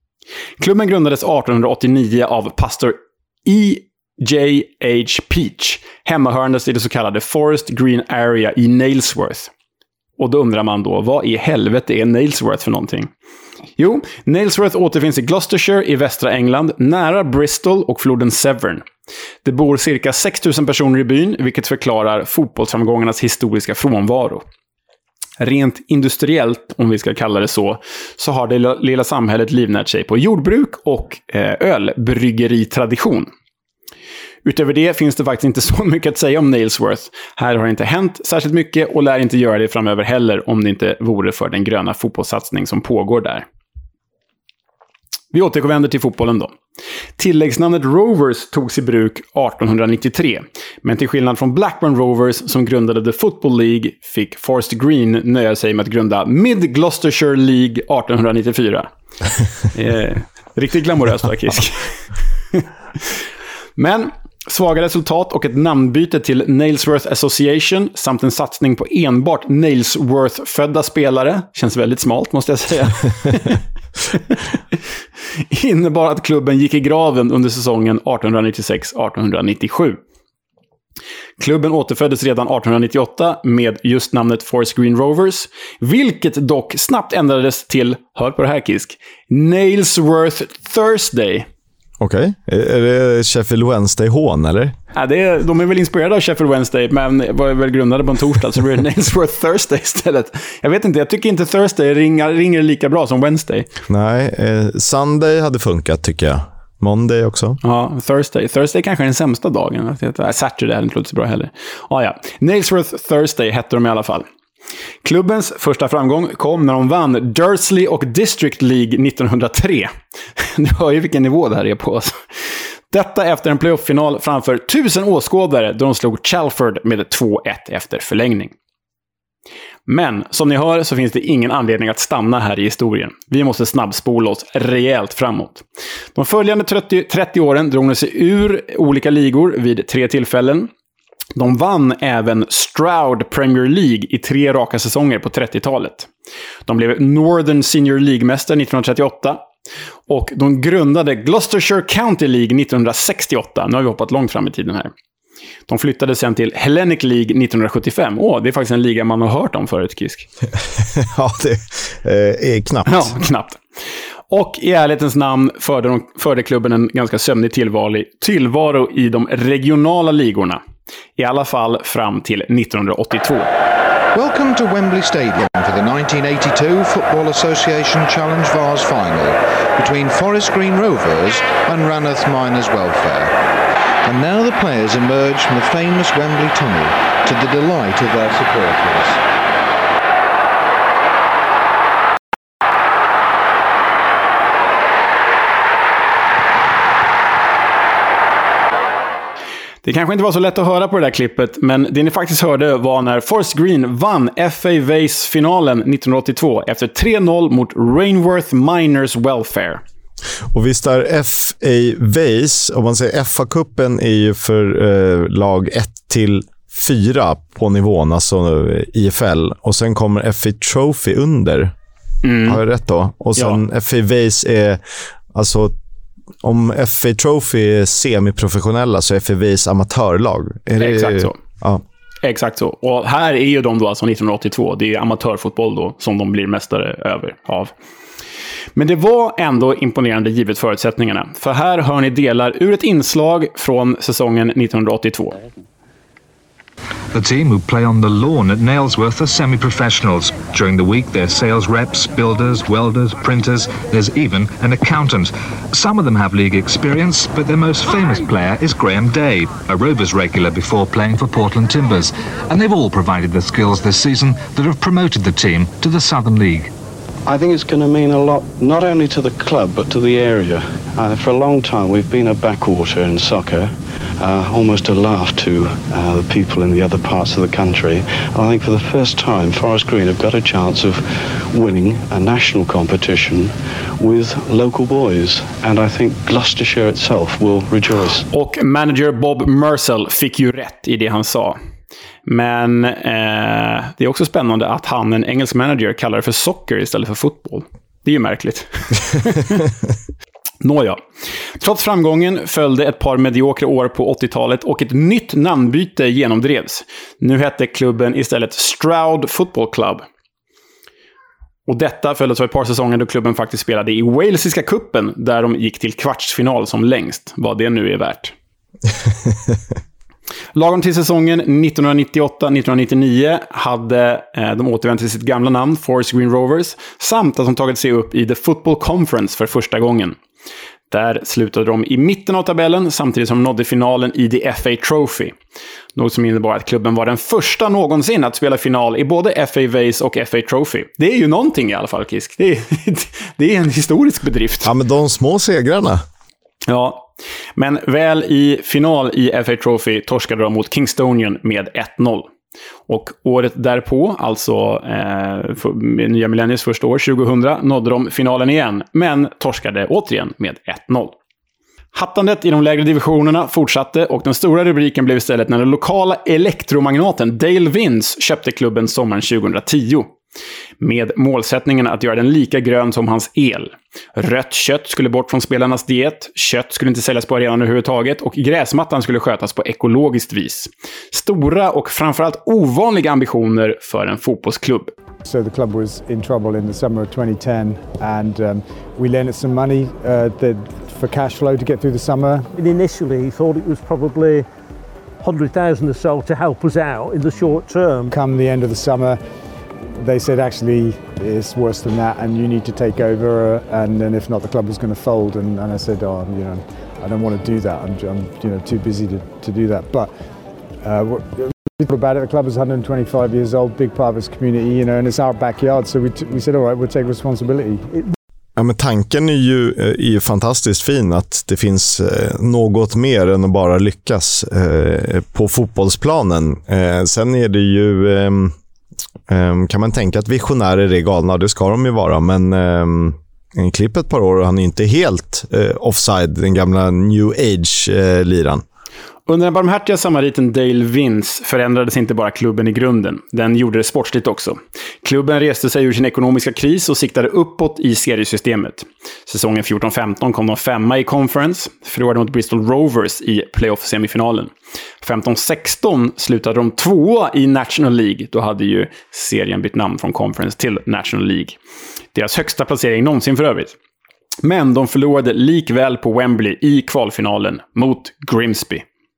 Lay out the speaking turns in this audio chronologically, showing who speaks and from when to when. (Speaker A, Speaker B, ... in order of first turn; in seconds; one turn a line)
Speaker A: 0.6-9.5
Speaker A: 10.2-13.1
Speaker A: 13.8-18.9
Speaker A: 19.4-24.4
Speaker A: 25.4-33.3
Speaker A: 34.5-43.5
Speaker A: 45.3-46.5
Speaker A: 47.2-58.9
Speaker A: 59.7-62.0
Speaker A: 62.5-63.2
Speaker A: 63.8-74.6
Speaker A: 75.5-80.0
Speaker A: 81.4-91.5
Speaker B: 92.0-94.8
Speaker A: 94.9-103.7
Speaker B: 103.9-107.6
Speaker A: 107.6-114.2
Speaker A: 115.0-122.2
Speaker A: 122.9-128.5
Speaker A: 129.9-135.6
Speaker A: 136.2-140.7
Speaker A: 141.3-146.1
Speaker A: 146.7-149.4
Speaker A: 150.1-154.9
Speaker A: 155.7-160.3
Speaker B: 160.9-163.1
Speaker A: 162.9-163.6
Speaker A: 164.3-170.6
Speaker A: 171.2-173.5
Speaker C: 174.1-183.4
Speaker C: 184.0-189.2
Speaker A: 199.8-209.8
Speaker B: 210.5-221.7
Speaker A: 222.2-222.6
Speaker B: 222.4-224.8
Speaker B: 225.3-225.7
Speaker B: 226.4-231.8
Speaker A: 230.8-231.4
Speaker A: 232.2-237.7
Speaker A: 238.8-245.4
Speaker D: 247.1-266.7
Speaker E: 267.3-288.3
Speaker A: 288.3-291.6
Speaker A: 292.3-299.7
Speaker A: 300.6-301.0
Speaker A: 301.6-310.1
Speaker A: 311.7-318.3
Speaker A: 320.5-330.2
Speaker A: 330.9-335.3
Speaker A: 335.9-344.7
Speaker B: 344.6-346.0
Speaker A: 346.7-352.3
Speaker A: 352.9-361.1
Speaker A: 361.9-370.1
Speaker A: 370.8-384.9
Speaker F: 385.2-392.5
Speaker G: 392.6-394.4
Speaker G: 395.2-398.0
Speaker F: 398.1-399.2
Speaker F: 400.0-410.1
Speaker F: 410.8-418.1
Speaker B: 418.6-428.5
Speaker B: 429.3-438.6
Speaker A: 439.3-461.6
Speaker A: 462.1-463.8
Speaker A: 464.4-468.8